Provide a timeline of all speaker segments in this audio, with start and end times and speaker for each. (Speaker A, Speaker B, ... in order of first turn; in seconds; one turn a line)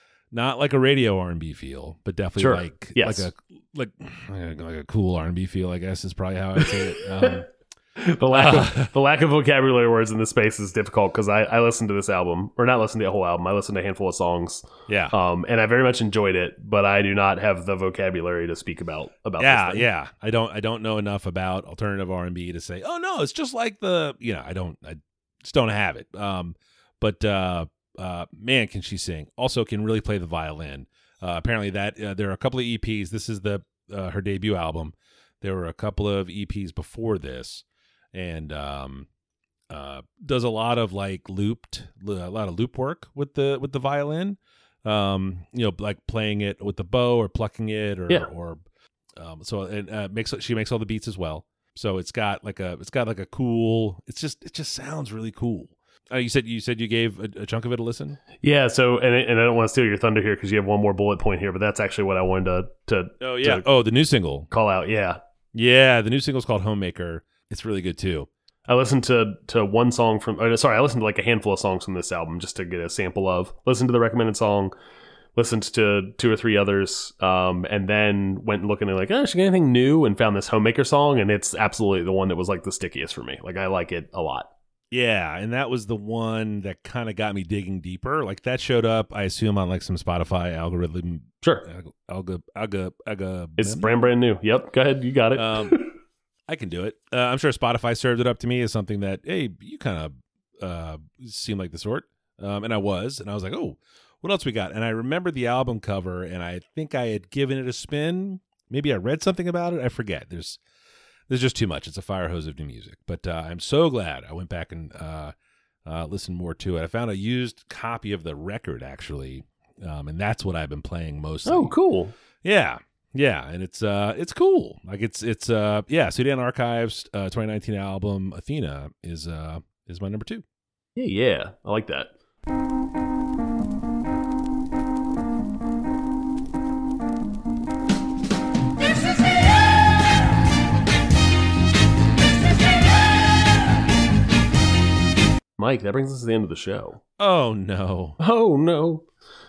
Speaker A: 0.3-7.5
Speaker B: 2.4-3.3
Speaker B: 6.6-7.3
Speaker B: 8.0-19.9
Speaker A: 8.3-8.9
Speaker A: 14.9-15.1
Speaker A: 19.4-39.1
Speaker A: 39.7-48.6
Speaker A: 49.1-58.2
Speaker B: 58.4-63.6
Speaker A: 63.2-64.5
Speaker B: 64.5-65.2
Speaker A: 65.5-68.3
Speaker B: 68.7-74.7
Speaker B: 75.3-84.5
Speaker A: 84.9-93.9
Speaker B: 93.6-95.9
Speaker A: 95.3-95.8
Speaker A: 96.5-110.6
Speaker A: 111.3-115.3
Speaker A: 115.8-121.7
Speaker B: 121.5-122.1
Speaker A: 122.4-130.4
Speaker B: 130.9-132.1
Speaker B: 145.6-147.0
Speaker A: 147.2-148.2
Speaker B: 148.2-149.1